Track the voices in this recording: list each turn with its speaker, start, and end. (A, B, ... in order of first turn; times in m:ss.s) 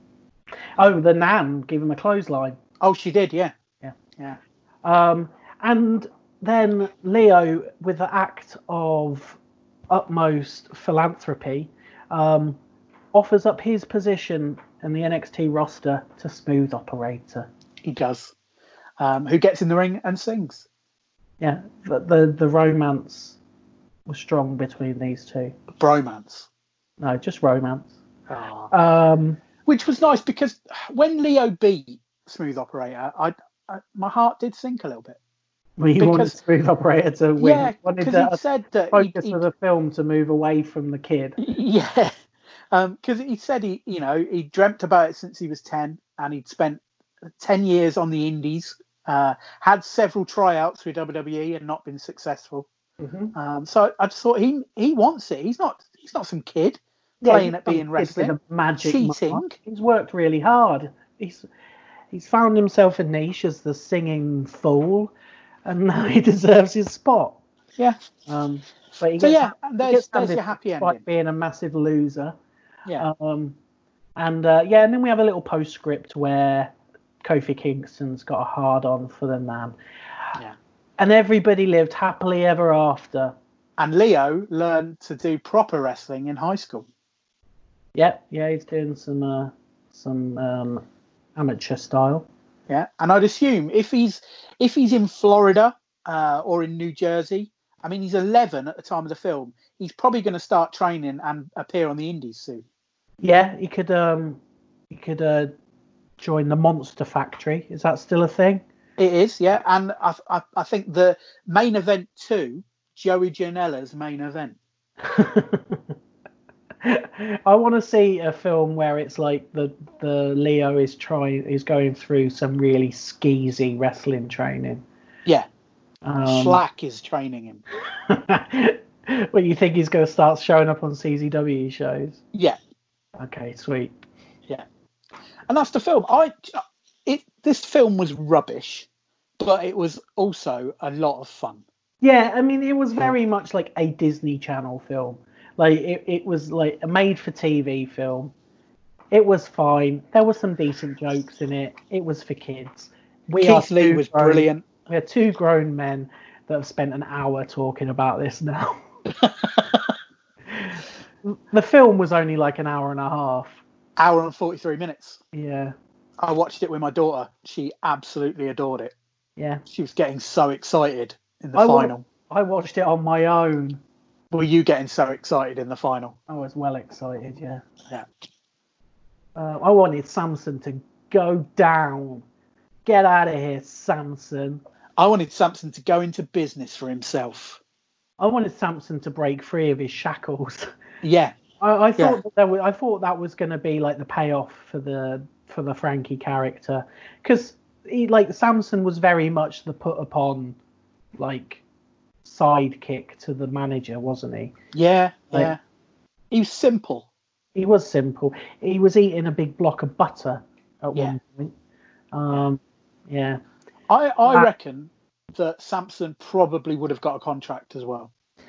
0:00.8-0:02.6 A
0:02.8-0:03.5 B
0:04.8-0:09.4 A
0:09.9-0:12.6 A
0:13.1-0:17.5 A
0:17.8-0:18.3 B
0:19.0-0:20.6 B
0:21.4-0:23.4 A
0:24.1-0:25.6 A
0:25.8-0:26.5 B
0:27.0-0:27.9 A
0:28.3-0:28.7 B
0:28.7-0:29.4 A
0:29.6-0:35.2 B
0:35.8-0:38.4 A
0:36.0-0:36.4 B
0:37.4-0:39.4 B
0:38.9-0:41.4 A
0:41.4-0:42.1 B
0:42.7-0:52.7 B
0:53.0-0:53.3 A
0:53.3-0:59.5 B
0:57.2-1:01.4 A
1:02.1-1:05.1 A
1:05.6-1:07.4 A
1:08.3-1:12.3 A
1:09.2-1:11.0 B
1:13.0-1:13.6 A
1:14.2-1:19.7 A
1:21.0-1:23.3 A
1:23.8-1:26.9 B
1:27.9-1:30.8 A
1:31.4-1:32.3 A
1:32.7-1:42.6 B
1:43.2-1:45.5 A
1:46.2-1:48.6 A
1:49.0-1:54.6 B
1:55.0-1:55.9 A
1:56.8-2:04.8 A
2:06.0-2:06.6 A
2:06.2-2:07.6 B
2:08.1-2:12.2 A
2:13.2-2:13.9 A
2:15.5-2:18.9 B
2:19.4-2:21.6 B
2:22.0-2:28.3 A
2:29.1-2:38.9 A
2:33.4-2:34.6 B
2:39.2-2:39.9 B
2:40.5-2:43.6 A
2:44.0-2:45.2 B
2:45.3-2:45.7 A
2:46.2-2:48.9 B
2:49.4-2:49.6 A
2:49.7-2:52.0 B
2:51.6-2:53.8 A
2:54.3-2:56.2 B
2:56.3-2:57.6 A
2:59.4-3:02.2 A
3:02.8-3:04.6 A
3:05.0-3:07.6 B
3:08.2-3:10.7 A
3:11.0-3:11.4 B
3:11.6-3:20.6 A
3:21.2-3:21.6 A
3:22.2-3:24.5 A
3:24.7-3:25.6 B
3:26.3-3:27.1 B
3:27.5-3:31.5 A
3:32.1-3:33.4 A
3:33.9-3:38.1 B